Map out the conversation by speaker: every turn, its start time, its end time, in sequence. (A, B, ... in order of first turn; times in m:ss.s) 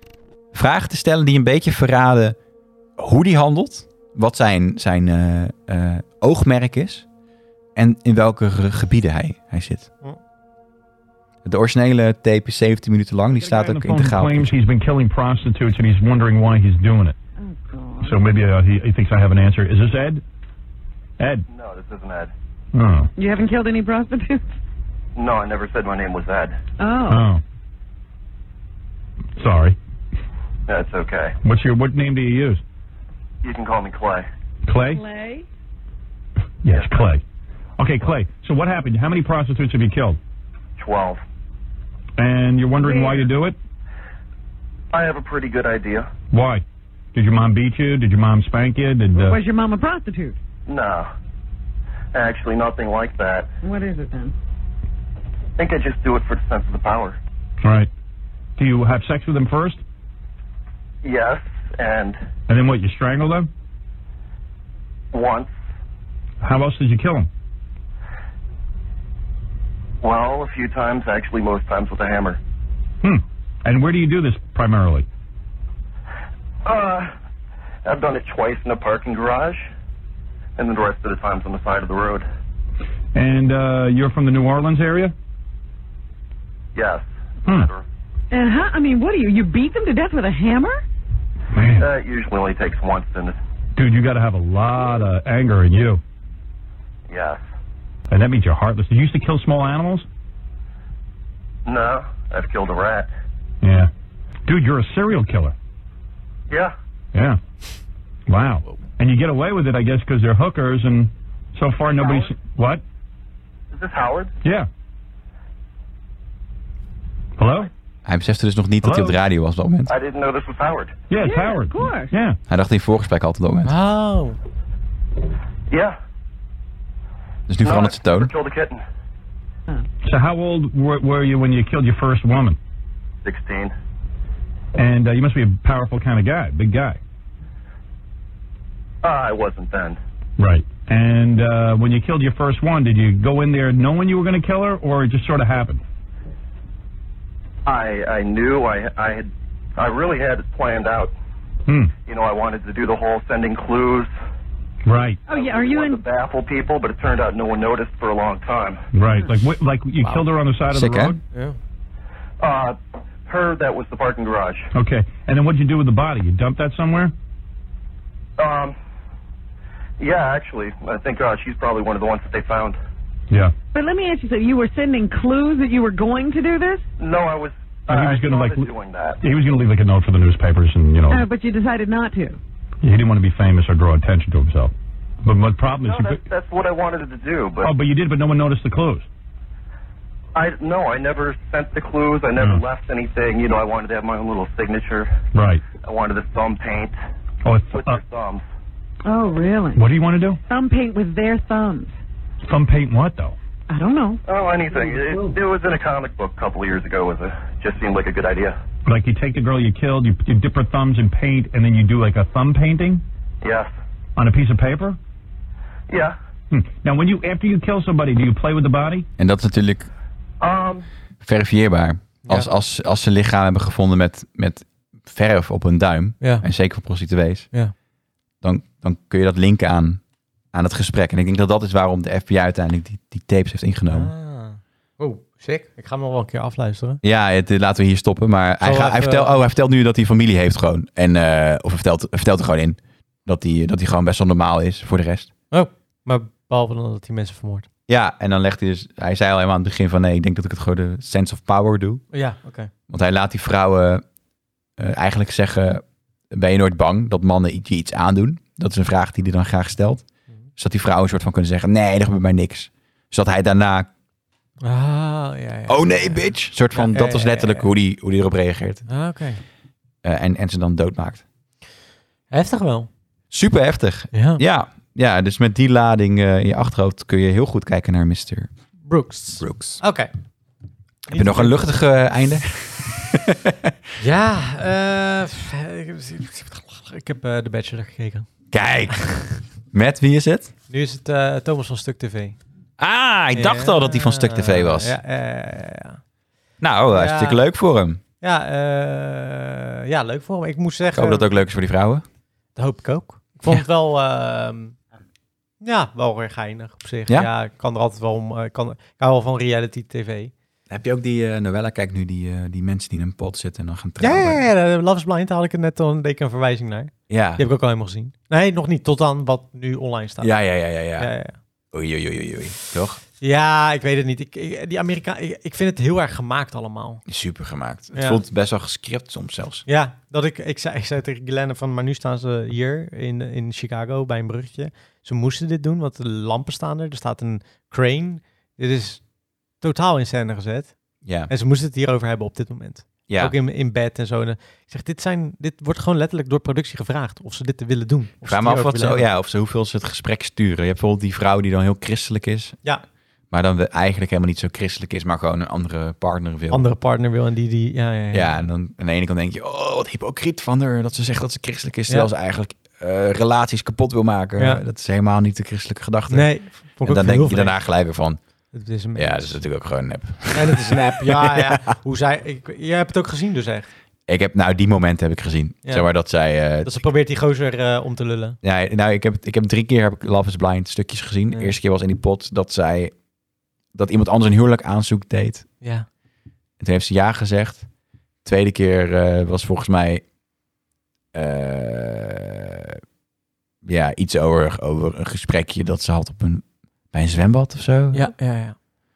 0:00.5-0:02.4 A
0:03.0-0:07.0 A
0:07.8-0:09.9 A
0:11.4-0:14.6 A
0:13.4-0:17.2 B
0:17.4-0:18.2 C
0:18.0-0:20.2 B
0:21.2-0:21.4 B
0:21.5-0:22.3 D
0:22.7-0:23.1 B
0:23.2-0:24.4 C
0:25.2-0:26.6 D
0:26.8-0:27.3 C
0:27.1-0:27.4 B
0:29.4-0:29.8 B
0:30.7-0:31.4 D
0:31.4-0:32.6 B
0:33.4-0:34.2 D
0:34.6-0:35.0 B
0:34.9-0:35.5 C
0:36.6-0:37.2 B
0:37.8-0:40.2 B
0:40.8-0:41.2 D
0:42.2-0:43.6 B
0:42.8-0:43.3 C
0:44.9-0:46.1 D
0:46.3-0:49.4 B
0:49.2-0:50.4 C
0:50.7-0:51.1 D
0:52.1-0:53.5 D
0:53.6-0:54.3 C
0:55.6-0:57.2 D
0:57.6-0:57.9 B
0:58.6-0:59.8 B
1:01.0-1:02.2 D
1:02.5-1:03.5 B
1:05.1-1:05.5 D
1:06.4-1:07.3 B
1:10.0-1:12.4 D
1:13.0-1:15.0 B
1:16.6-1:17.1 D
1:17.8-1:19.6 D
1:20.6-1:22.2 D
1:23.1-1:25.1 B
1:26.7-1:27.8 D
1:28.3-1:30.8 C
1:31.5-1:31.9 B
1:31.8-1:33.4 D
1:33.8-1:36.0 B
1:37.1-1:37.4 D
1:38.1-1:40.0 B
1:41.6-1:43.1 D
1:43.6-1:43.9 B
1:44.4-1:45.5 B
1:47.1-1:47.4 B
1:48.3-1:52.8 B
1:53.7-1:54.3 D
1:54.4-1:54.7 B
1:57.4-1:57.7 B
1:58.0-1:59.9 A
1:58.8-1:59.2 B
1:59.9-2:01.0 D
2:01.1-2:02.4 B
2:01.2-2:02.1 C
2:02.5-2:03.7 A
2:03.6-2:04.4 E
2:05.7-2:06.0 D
2:07.5-2:08.3 A
2:07.6-2:08.8 D
2:10.0-2:12.6 B
2:13.2-2:13.7 D
2:14.8-2:17.0 B
2:19.0-2:20.0 D
2:20.4-2:25.8 B
2:27.6-2:31.1 D
2:31.7-2:31.9 B
2:32.0-2:34.1 D
2:34.8-2:35.2 B
2:35.3-2:36.0 C
2:35.3-2:38.8 D
2:38.9-2:41.2 B
2:40.7-2:41.2 A
2:41.3-2:41.6 E
2:42.4-2:44.7 D
2:44.7-2:47.1 B
2:48.4-2:48.7 D
2:50.0-2:52.8 D
2:53.7-2:56.8 C
2:57.0-2:59.2 D
2:57.9-2:58.7 B
2:59.2-3:01.2 B
3:01.1-3:02.4 C
3:02.8-3:04.7 B
3:05.2-3:06.2 B
3:05.7-3:07.7 D
3:07.6-3:09.0 B
3:10.3-3:15.2 D
3:15.3-3:15.6 B
3:15.8-3:17.0 D
3:17.4-3:18.0 B
3:17.7-3:18.4 D
3:19.0-3:19.8 C
3:19.8-3:20.4 B
3:20.5-3:21.9 C
3:22.4-3:23.4 B
3:23.7-3:24.2 C
3:24.3-3:28.6 D
3:28.8-3:33.0 B
3:33.4-3:33.7 D
3:34.2-3:35.0 B
3:35.9-3:36.2 D
3:36.5-3:39.1 B
3:39.2-3:39.9 A
3:40.4-3:40.8 D
3:41.2-3:47.5 A
3:42.2-3:42.5 E
3:48.4-3:50.0 A
3:50.5-3:54.1 A
3:53.9-3:57.0 E
3:57.0-4:05.3 A
3:58.6-3:59.4 E
4:05.5-4:07.7 E
4:07.9-4:12.0 A
4:12.1-4:12.7 E
4:12.9-4:14.0 A
4:14.8-4:20.0 A
4:20.6-4:23.9 A
4:24.6-4:27.7 E
4:25.7-4:28.8 A
4:28.9-4:29.4 E
4:30.0-4:31.2 A
4:32.3-4:32.9 E
4:33.3-4:38.5 A
4:34.1-4:34.4 E
4:38.8-4:40.1 E
4:39.4-4:39.8 A
4:41.1-4:41.6 E
4:41.1-4:43.8 A
4:44.0-4:48.3 E
4:48.5-4:50.5 A
4:50.7-4:52.4 E
4:52.8-4:55.0 A
4:53.3-4:56.0 E
4:56.6-4:58.0 A
4:56.9-4:57.4 E
4:58.2-5:01.2 E
5:00.9-5:02.0 A
5:02.6-5:04.8 E
5:05.6-5:10.3 E
5:10.7-5:14.4 A
5:14.0-5:20.3 E
5:17.1-5:17.4 A
5:20.2-5:21.1 A
5:21.0-5:21.4 E
5:21.7-5:23.0 A
5:23.2-5:27.0 E
5:27.1-5:29.6 A
5:27.9-5:28.2 E
5:29.7-5:39.0 E
5:39.6-5:40.7 E
5:41.0-5:41.3 A
5:41.3-5:49.0 E
5:43.1-5:43.3 A
5:48.2-5:52.6 A
5:53.3-5:56.7 A
5:56.5-5:58.4 E
5:58.1-6:06.3 A
6:06.1-6:07.5 E
6:06.8-6:08.2 A
6:08.5-6:09.4 E
6:09.0-6:11.8 A
6:10.3-6:13.7 E
6:14.1-6:16.7 A
6:16.6-6:18.4 E
6:18.4-6:22.9 A
6:23.7-6:25.5 A
6:25.6-6:25.9 E
6:26.6-6:27.7 A
6:28.2-6:30.0 A
6:31.1-6:32.8 A
6:33.6-6:38.1 A
6:37.9-6:38.6 E